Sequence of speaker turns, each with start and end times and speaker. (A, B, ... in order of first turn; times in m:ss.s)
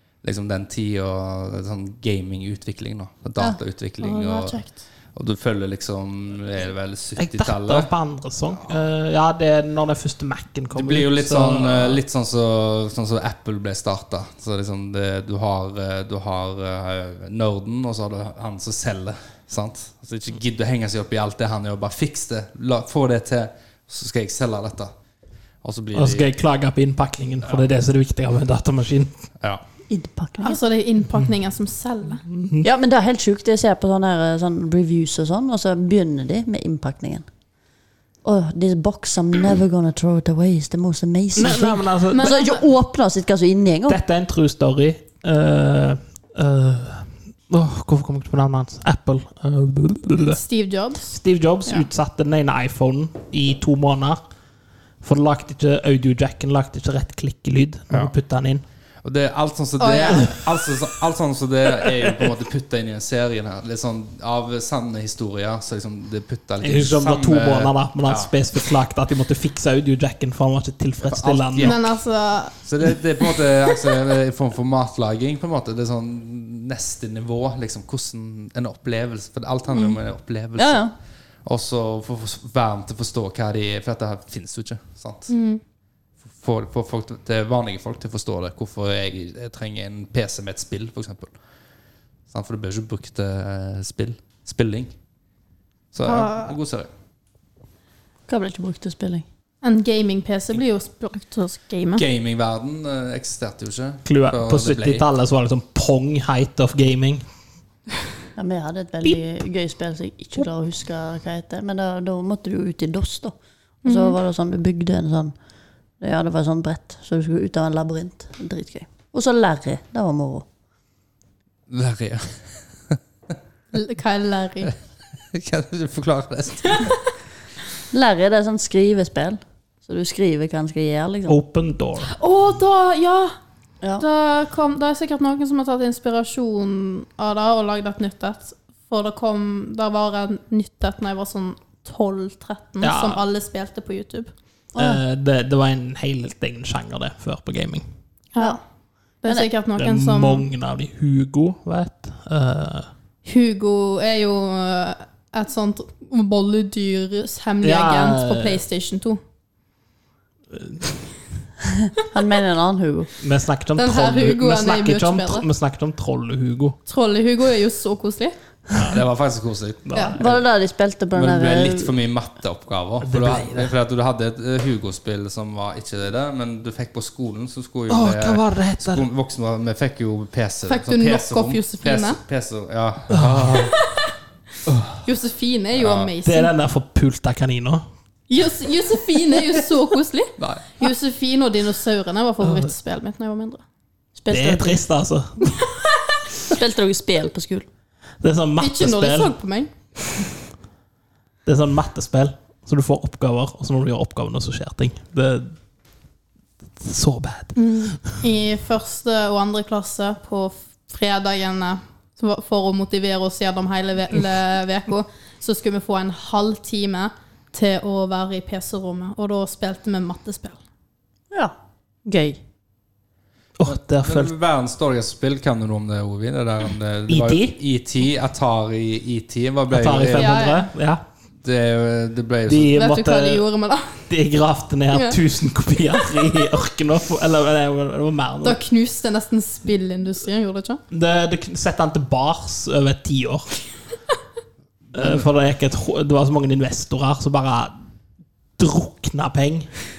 0:00.2-0:07.9 A
0:04.0-0:04.8 B
0:07.2-0:12.0 C
0:10.7-0:24.9 A
0:25.6-0:26.3 A
0:25.9-0:29.2 C
0:29.9-0:30.6 D
0:30.4-0:32.2 B
0:32.4-0:32.6 C
0:32.6-0:37.3 D
0:38.2-0:44.0 D
0:41.3-0:42.3 C
0:42.1-0:42.6 B
0:43.9-0:50.4 C
0:50.3-0:51.9 B
0:51.1-0:54.2 C
0:55.0-0:58.6 C
0:59.0-1:08.3 A
0:59.8-1:00.3 B
1:06.6-1:11.8 C
1:11.0-1:11.9 A
1:11.6-1:12.6 B
1:12.6-1:20.9 A
1:19.7-1:20.0 D
1:20.6-1:20.9 D
1:21.4-1:25.3 A
1:25.3-1:25.6 B
1:26.3-1:31.3 A
1:32.3-1:34.9 A
1:35.9-1:36.9 A
1:36.0-1:36.5 B
1:38.3-1:39.2 D
1:39.6-1:42.0 B
1:42.0-1:45.0 A
1:44.0-1:47.2 C
1:48.4-1:55.3 D
1:53.8-1:54.2 B
1:56.0-2:00.4 D
2:01.7-2:03.0 A
2:03.7-2:04.7 B
2:05.3-2:07.0 A
2:07.9-2:11.4 D
2:11.3-2:12.1 C
2:12.1-2:13.3 B
2:14.0-2:24.3 B
2:22.8-2:23.2 C
2:24.8-2:25.0 D
2:24.8-2:27.8 C
2:28.3-2:28.6 B
2:29.2-2:30.4 B
2:29.8-2:32.9 C
2:33.2-2:39.2 B
2:37.6-2:38.6 C
2:40.5-2:41.0 C
2:42.0-2:43.1 D
2:43.2-2:46.8 C
2:43.8-2:45.4 B
2:46.8-2:48.3 B
2:48.8-2:50.4 A
2:49.8-2:50.2 C
2:49.9-2:50.2 B
2:50.2-2:51.9 D
2:51.1-3:03.8 A
2:53.0-2:53.7 C
2:57.9-2:59.0 C
3:00.7-3:02.2 B
3:03.1-3:03.7 C
3:03.8-3:04.1 B
3:04.7-3:05.0 A
3:05.0-3:06.5 B
3:05.7-3:06.1 A
3:06.2-3:07.8 C
3:08.3-3:13.6 B
3:10.4-3:10.6 A
3:12.4-3:12.7 C
3:14.2-3:14.8 D
3:14.3-3:15.6 C
3:16.5-3:17.7 D
3:18.2-3:19.3 C
3:18.6-3:19.7 B
3:21.4-3:25.5 C
3:26.8-3:28.2 C
3:27.6-3:40.6 B
3:42.0-3:42.4 D
3:43.6-3:44.3 C
3:43.7-3:50.4 A
3:47.1-3:47.6 C
3:49.7-3:51.0 C
3:50.1-3:50.7 B
3:51.4-3:52.7 A
3:52.5-3:53.4 C
3:52.7-3:54.0 B
3:54.1-3:58.6 C
3:58.4-4:00.8 B
4:00.9-4:03.6 C
4:04.9-4:07.7 C
4:04.9-4:05.3 A
4:08.6-4:09.7 C